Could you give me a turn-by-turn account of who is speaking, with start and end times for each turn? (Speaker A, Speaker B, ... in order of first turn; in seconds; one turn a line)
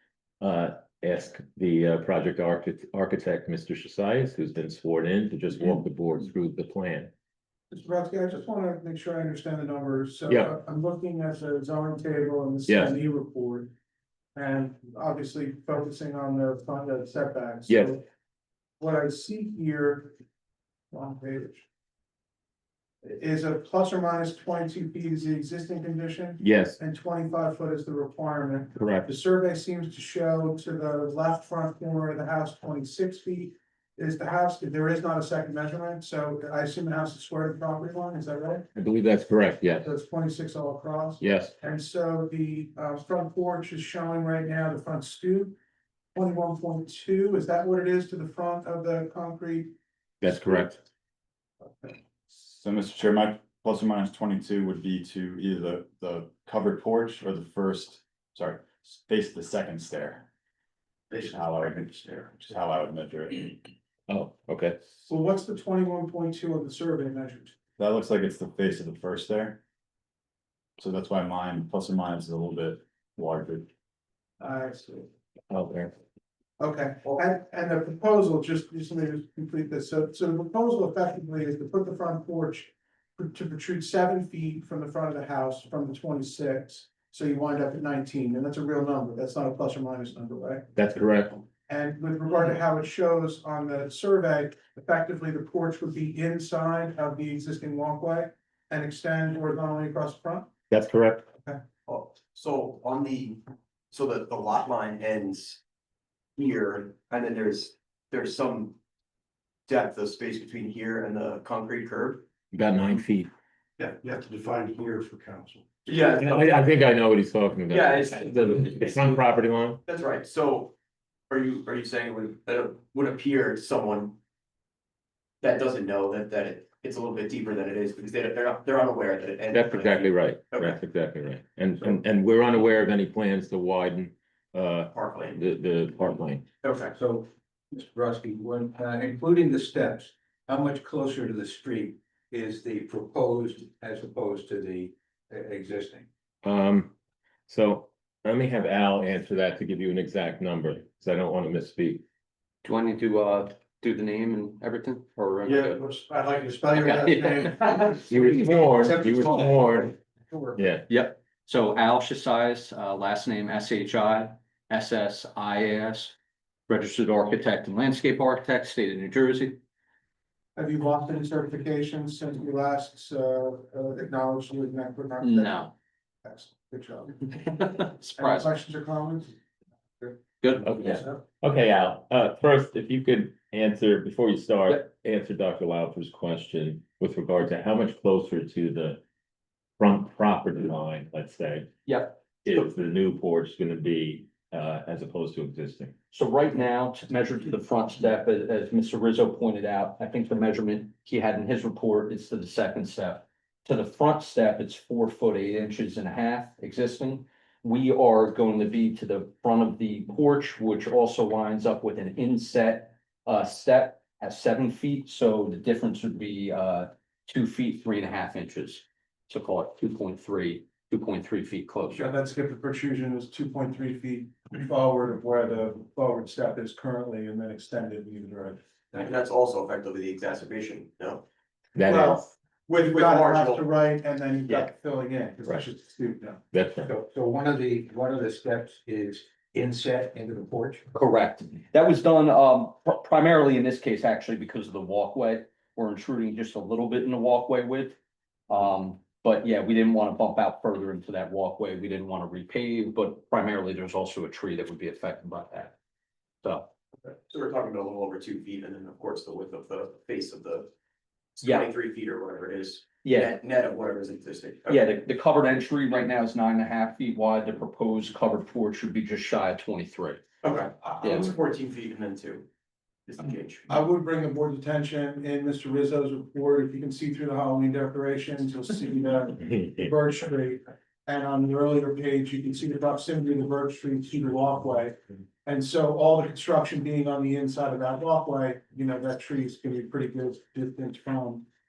Speaker A: 0.4-7.1
Speaker B: 7.7-13.7
Speaker A: 12.7-12.9
Speaker B: 14.3-18.0
Speaker B: 18.8-20.1
Speaker B: 20.9-21.6
Speaker B: 23.0-38.6
Speaker A: 26.4-26.8
Speaker A: 28.8-29.1
Speaker A: 38.8-39.9
Speaker B: 39.8-45.5
Speaker A: 41.2-41.5
Speaker B: 46.1-49.7
Speaker A: 50.2-50.8
Speaker B: 50.3-50.7
Speaker C: 52.3-60.2
Speaker D: 61.1-62.4
Speaker C: 61.2-63.5
Speaker A: 64.1-64.8
Speaker B: 65.0-67.5
Speaker C: 67.8-69.6
Speaker C: 70.8-73.7
Speaker B: 74.4-75.1
Speaker A: 75.5-75.9
Speaker B: 76.6-90.7
Speaker A: 90.8-91.4
Speaker B: 91.6-100.5
Speaker A: 100.7-101.3
Speaker D: 101.8-105.6
Speaker D: 106.4-108.8
Speaker D: 109.7-112.2
Speaker A: 112.5-113.3
Speaker E: 114.0-115.6
Speaker D: 115.8-116.7
Speaker A: 116.1-119.8
Speaker D: 117.7-119.2
Speaker D: 119.8-120.7
Speaker D: 121.3-124.2
Speaker D: 125.4-130.8
Speaker A: 129.5-136.4
Speaker D: 134.9-135.4
Speaker D: 136.6-137.0
Speaker E: 136.9-146.1
Speaker A: 146.4-146.9
Speaker A: 147.5-152.0
Speaker F: 152.6-155.9
Speaker D: 156.1-156.3
Speaker F: 156.7-157.9
Speaker A: 158.0-159.9
Speaker E: 158.3-159.6
Speaker A: 160.6-160.8
Speaker F: 160.9-166.1
Speaker F: 166.7-169.6
Speaker B: 170.5-175.7
Speaker F: 175.2-175.7
Speaker B: 176.2-177.3
Speaker F: 177.3-178.5
Speaker B: 178.2-179.3
Speaker F: 180.4-181.0
Speaker A: 180.6-189.0
Speaker A: 189.8-191.7
Speaker F: 191.8-192.6
Speaker A: 192.4-195.9
Speaker F: 196.1-222.1
Speaker B: 221.9-228.6
Speaker D: 229.0-231.2
Speaker A: 231.8-232.3
Speaker B: 231.8-236.4
Speaker D: 232.7-233.7
Speaker A: 236.5-236.9
Speaker E: 236.8-240.8
Speaker F: 240.9-248.0
Speaker F: 248.5-255.8
Speaker F: 256.4-256.7
Speaker D: 257.3-260.7
Speaker D: 261.4-264.9
Speaker F: 261.4-261.7
Speaker F: 263.0-263.3
Speaker F: 264.7-270.2
Speaker D: 270.4-272.4
Speaker F: 271.0-271.3
Speaker D: 273.1-273.7
Speaker B: 273.7-291.4